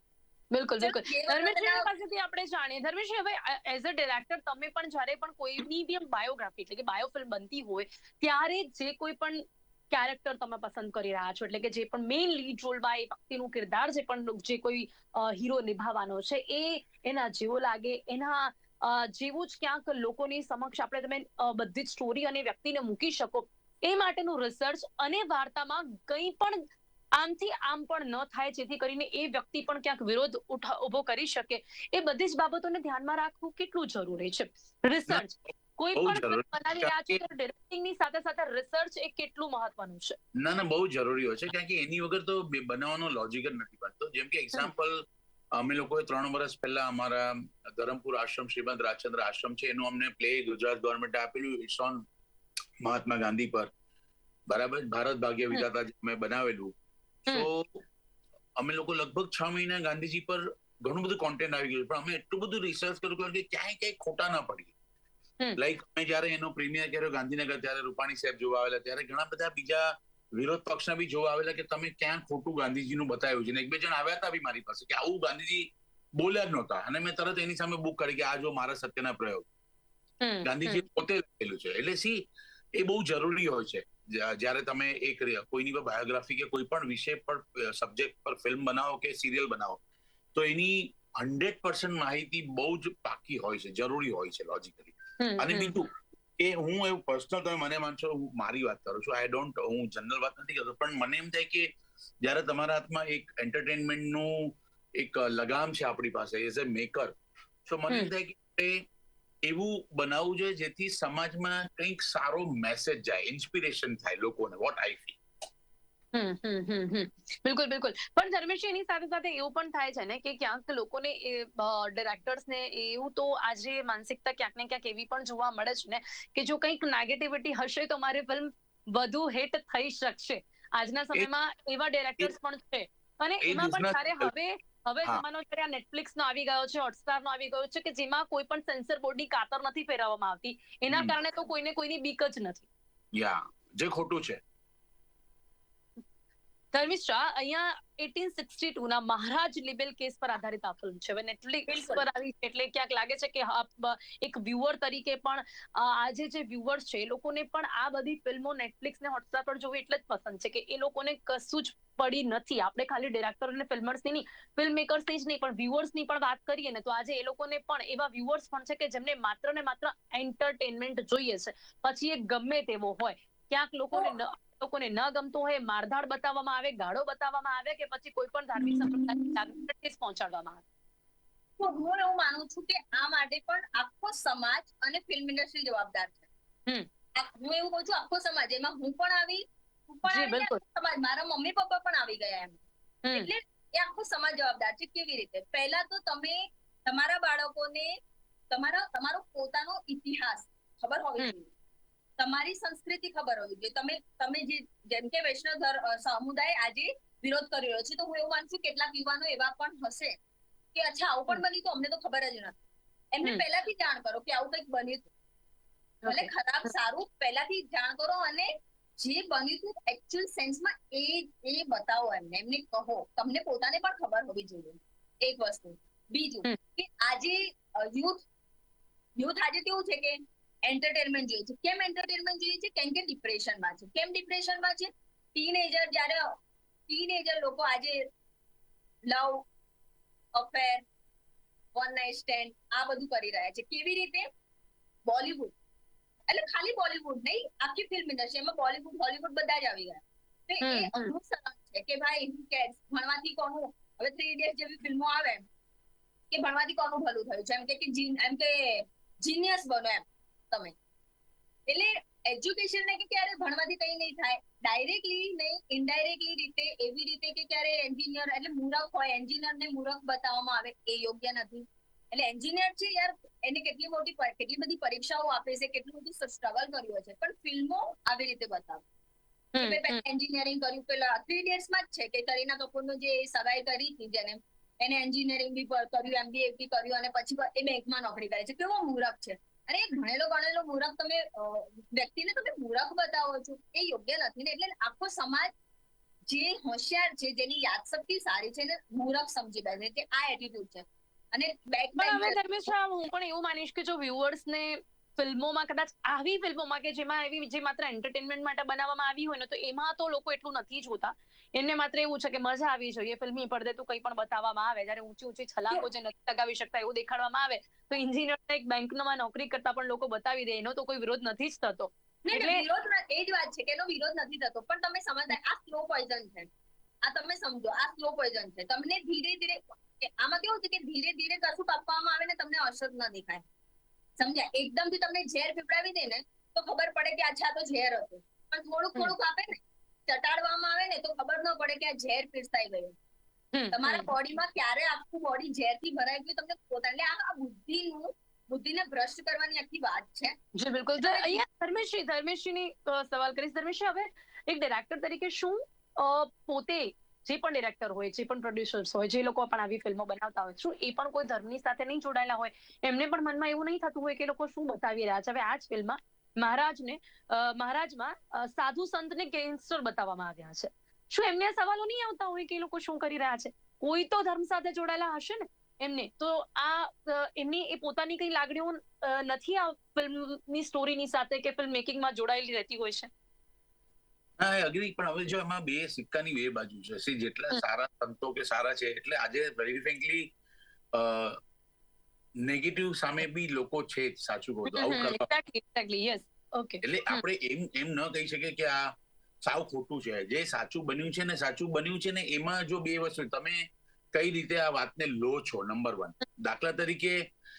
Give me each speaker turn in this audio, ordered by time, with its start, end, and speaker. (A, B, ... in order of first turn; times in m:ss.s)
0:00.5-0:26.6 A
0:00.8-0:01.9 B
0:27.2-0:40.2 A
0:36.0-0:37.2 C
0:40.4-0:52.0 C
0:52.8-0:53.7 C
0:54.5-0:56.7 C
0:57.3-0:57.8 C
0:58.6-1:04.7 C
1:05.6-1:19.5 C
1:20.2-1:20.9 A
1:20.4-1:22.2 C
1:22.8-1:29.8 C
1:30.4-1:41.7 C
1:35.2-1:35.8 A
1:42.2-1:47.1 C
1:47.7-1:48.8 C
1:49.4-1:55.2 C
1:56.1-2:22.7 A
2:13.4-2:14.3 C
2:20.9-2:21.2 C
2:23.1-2:24.4 C
2:26.7-3:00.6 A
2:31.7-2:32.0 B
2:58.6-2:59.3 B
3:01.6-3:06.3 B
3:07.2-3:17.9 B
3:10.1-3:10.6 A
3:18.5-3:21.5 B
3:22.2-3:30.2 B
3:30.7-3:35.1 B
3:36.0-3:36.3 A
3:36.1-3:48.2 B
3:49.2-3:56.4 B
3:56.9-3:58.1 B
3:59.1-3:59.5 B
4:00.4-4:00.8 B
4:01.8-4:04.3 B
4:05.1-4:05.5 B
4:06.3-4:15.4 B
4:10.6-4:11.1 A
4:16.3-4:20.8 B
4:21.7-4:38.8 B
4:39.6-4:40.0 A
4:39.6-4:55.5 B
4:56.3-5:02.4 B
5:02.0-5:22.6 A
5:22.2-5:26.5 B
5:27.0-5:33.4 B
5:34.2-5:43.0 B
5:43.5-5:44.1 A
5:43.7-5:50.4 B
5:50.6-6:23.1 A
5:51.0-5:51.4 B
6:24.4-6:30.3 C
6:30.9-6:31.4 C
6:32.4-6:35.2 C
6:34.7-6:37.2 A
6:36.8-6:38.9 C
6:39.4-6:43.6 C
6:44.1-6:47.2 C